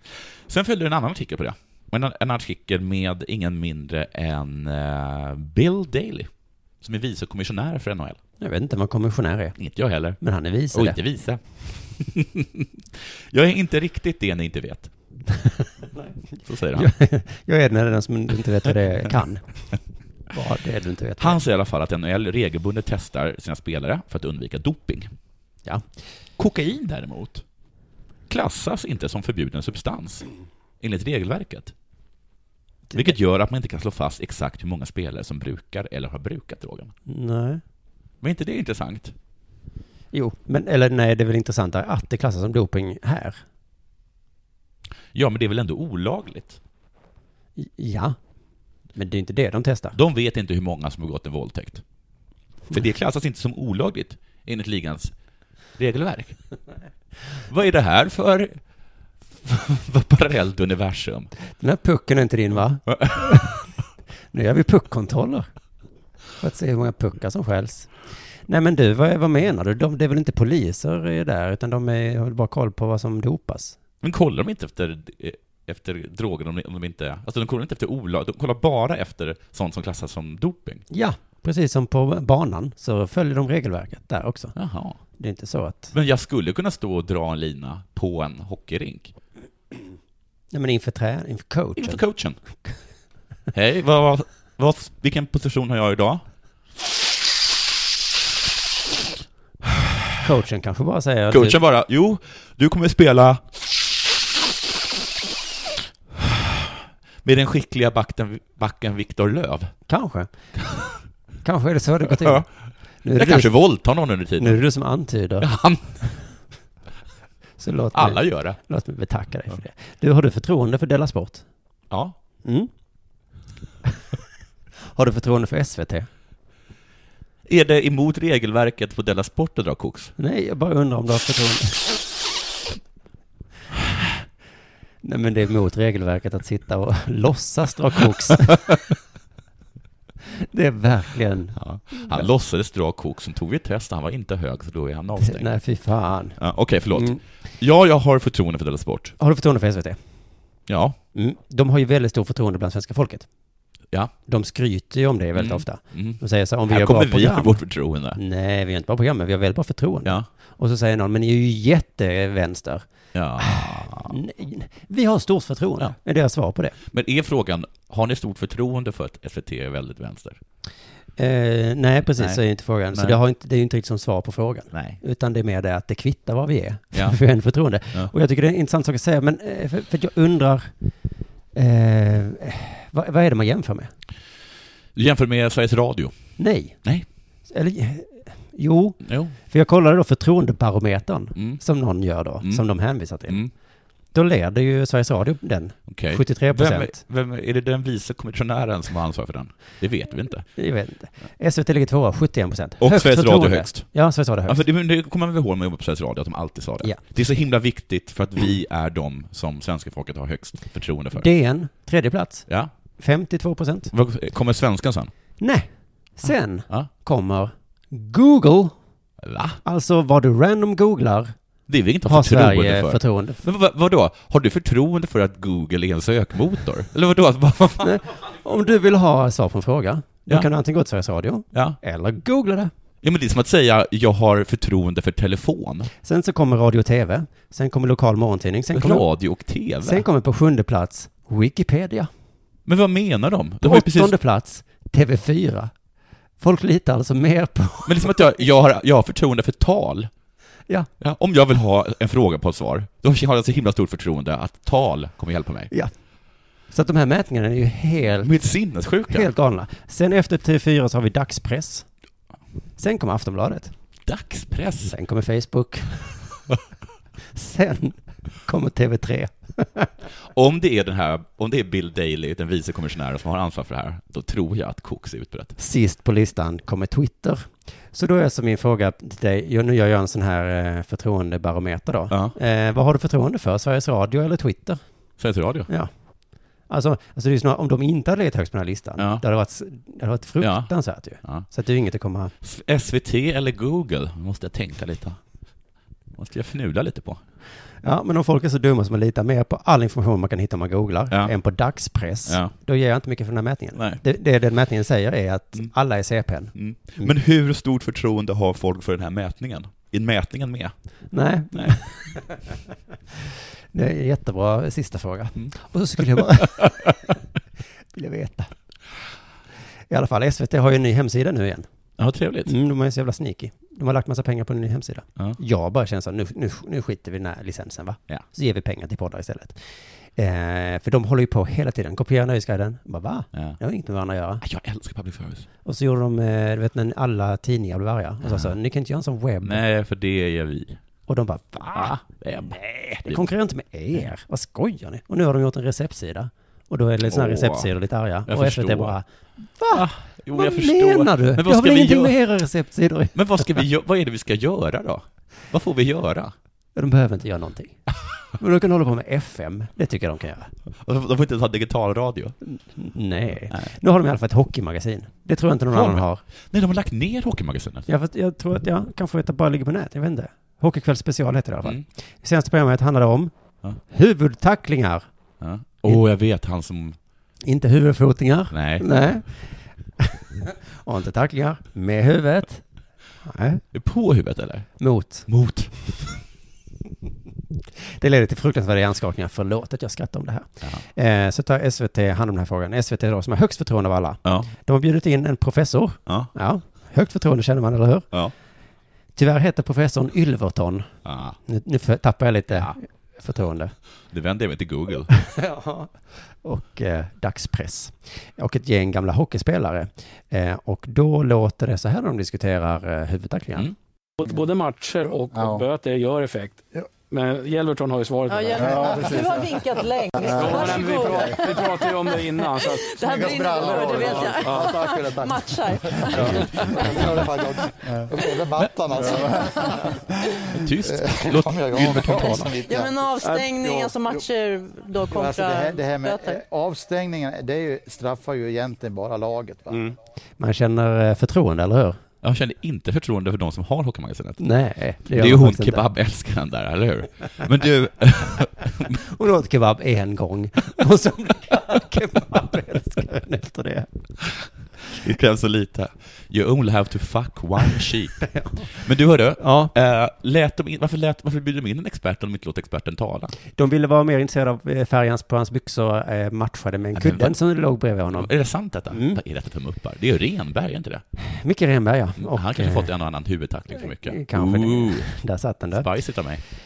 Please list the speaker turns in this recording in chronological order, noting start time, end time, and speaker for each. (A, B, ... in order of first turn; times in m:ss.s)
0:00.5-0:08.2 A
0:08.4-0:09.6 B
0:09.6-0:12.6 A
0:10.1-0:11.0 B
0:13.3-0:14.9 A
0:16.4-0:16.9 A
0:16.7-0:19.7 B
0:20.3-0:21.4 B
0:21.2-0:25.1 A
0:26.4-0:27.4 A
0:28.3-0:30.3 A
0:30.8-0:31.7 A
0:32.9-0:33.2 B
0:32.9-0:36.9 A
0:37.1-0:37.6 B
0:38.2-0:39.1 A
0:40.1-0:43.4 B
0:45.1-0:46.6 A
0:47.6-0:48.2 B
0:48.9-0:50.0 B
0:49.9-0:51.8 A
0:52.7-0:55.1 A
0:55.8-0:56.4 A
0:57.5-0:58.6 A
0:59.4-1:01.3 A
1:01.6-1:03.6 B
1:02.9-1:03.6 A
1:04.3-1:05.5 B
1:06.4-1:13.8 B
1:14.0-1:20.8 A
1:20.9-1:24.5 B
1:24.5-1:25.0 A
1:25.2-1:25.9 B
1:25.9-1:29.1 A
1:30.5-1:32.0 B
1:31.8-1:32.4 A
1:33.5-1:36.2 A
1:40.2-1:41.6 B
1:41.3-1:43.4 A
1:46.2-1:46.6 A
1:47.2-1:49.7 A
1:49.9-1:50.3 B
1:51.4-1:52.5 B
1:52.1-1:52.4 A
1:53.0-1:53.5 B
1:53.1-1:54.6 A
1:54.4-1:55.5 B
1:55.4-1:56.0 A
1:57.6-2:01.4 B
1:57.9-1:58.6 A
2:01.9-2:02.1 A
2:02.4-2:02.7 B
2:04.8-2:06.1 B
2:07.4-2:10.1 A
2:10.2-2:12.0 B
2:15.0-2:18.8 B
2:20.3-2:22.3 B
2:21.6-2:25.5 A
2:25.2-2:26.4 B
2:26.4-2:29.2 A
2:26.9-2:27.2 B
2:29.2-2:30.0 B
2:30.7-2:31.0 A
2:31.1-2:33.3 B
2:34.3-2:37.6 B
2:35.3-2:38.2 A
2:38.1-2:42.8 B
2:43.1-2:44.2 A
2:43.4-2:46.8 B
2:46.9-2:50.4 A
2:51.2-3:00.7 B
2:52.9-2:53.2 A
2:54.7-2:55.0 A
2:56.9-2:57.2 A
3:01.5-3:03.9 B
3:04.9-3:06.2 A
3:06.4-3:06.8 B
3:07.5-3:13.4 B
3:09.0-3:09.3 A
3:11.4-3:11.6 A
3:12.4-3:12.6 A
3:13.3-3:13.5 A
3:14.1-3:17.0 B
3:15.9-3:20.5 A
3:20.6-3:24.6 B
3:22.8-3:31.3 A
3:31.1-3:32.5 B
3:33.0-3:33.9 B
3:33.9-3:35.1 A
3:35.4-3:38.8 B
3:39.2-3:39.6 A
3:39.6-3:41.3 B
3:41.7-3:48.0 A
3:42.0-3:43.4 B
3:47.8-3:52.7 B
3:53.0-3:55.9 A
3:56.0-3:59.1 B
3:58.7-4:00.0 A
3:59.8-4:02.1 B
4:02.7-4:04.1 A
4:03.6-4:05.7 B
4:06.4-4:08.3 B
4:07.8-4:10.1 A
4:11.0-4:15.7 A
4:16.7-4:18.3 B
4:18.2-4:19.3 A
4:19.1-4:21.8 B
4:22.8-4:23.7 B
4:24.1-4:24.9 A
4:24.8-4:26.2 B
4:27.3-4:29.9 B
4:30.3-4:35.6 A
4:35.6-4:44.8 B
4:42.1-4:42.4 A
4:45.2-4:45.7 A
4:46.7-4:52.3 B
4:49.0-4:49.2 A
4:50.4-4:50.7 A
4:52.4-4:55.2 A
4:56.2-4:57.2 A
4:57.8-5:07.1 B
5:02.2-5:02.5 A
5:03.8-5:04.0 A
5:06.5-5:10.7 A
5:11.1-5:12.6 B
5:11.5-5:11.8 A
5:13.1-5:17.1 B
5:16.2-5:16.9 A
5:17.9-5:18.5 B
5:19.9-5:21.7 B
5:22.0-5:22.5 A
5:22.4-5:34.4 B
5:34.4-5:35.5 A
5:35.6-5:39.6 B
5:38.2-5:38.5 A
5:39.4-5:40.8 A
5:41.1-5:42.0 B
5:41.6-5:43.3 A
5:43.0-5:53.4 B
5:47.0-5:47.7 A
5:48.3-5:49.0 A
5:49.7-5:52.2 A
5:53.1-5:56.3 A
5:56.8-5:57.8 B
5:58.4-6:00.5 B
6:00.8-6:02.3 A
6:02.4-6:06.2 B
6:05.7-6:07.9 A
6:07.9-6:13.3 B
6:13.9-6:15.0 B
6:15.4-6:17.0 A
6:17.4-6:22.6 B
6:18.5-6:19.0 A
6:23.2-6:23.6 B
6:23.7-6:24.7 A
6:24.8-6:25.2 B
6:25.3-6:26.2 A
6:27.8-6:38.1 B
6:34.2-6:34.5 A
6:39.2-6:40.9 B
6:41.0-6:41.4 A
6:41.4-6:43.7 B
6:42.5-6:42.8 A
6:44.1-6:45.1 A
6:45.1-6:53.7 B
6:54.2-6:56.6 C
6:55.3-6:55.6 D
6:57.1-6:59.8 C
6:58.3-7:07.0 E
6:58.5-7:01.5 D
7:00.4-7:04.8 C
7:03.0-7:13.1 D
7:06.3-7:06.5 A
7:10.5-7:12.5 A
7:12.7-7:16.3 E
7:12.7-7:14.3 C
7:15.1-7:19.9 D
7:20.4-7:22.0 B
7:22.2-7:24.4 A
7:24.4-7:25.9 B
7:25.1-7:29.0 A
7:28.8-7:33.9 B
7:34.9-7:43.3 A
7:39.4-7:39.7 B
7:43.5-7:48.3 B
7:46.9-7:47.4 A
7:48.1-7:51.0 A
7:48.9-7:49.2 B
7:51.2-7:52.9 B
7:52.2-7:55.1 A
7:53.8-7:55.9 B
7:55.7-7:56.4 A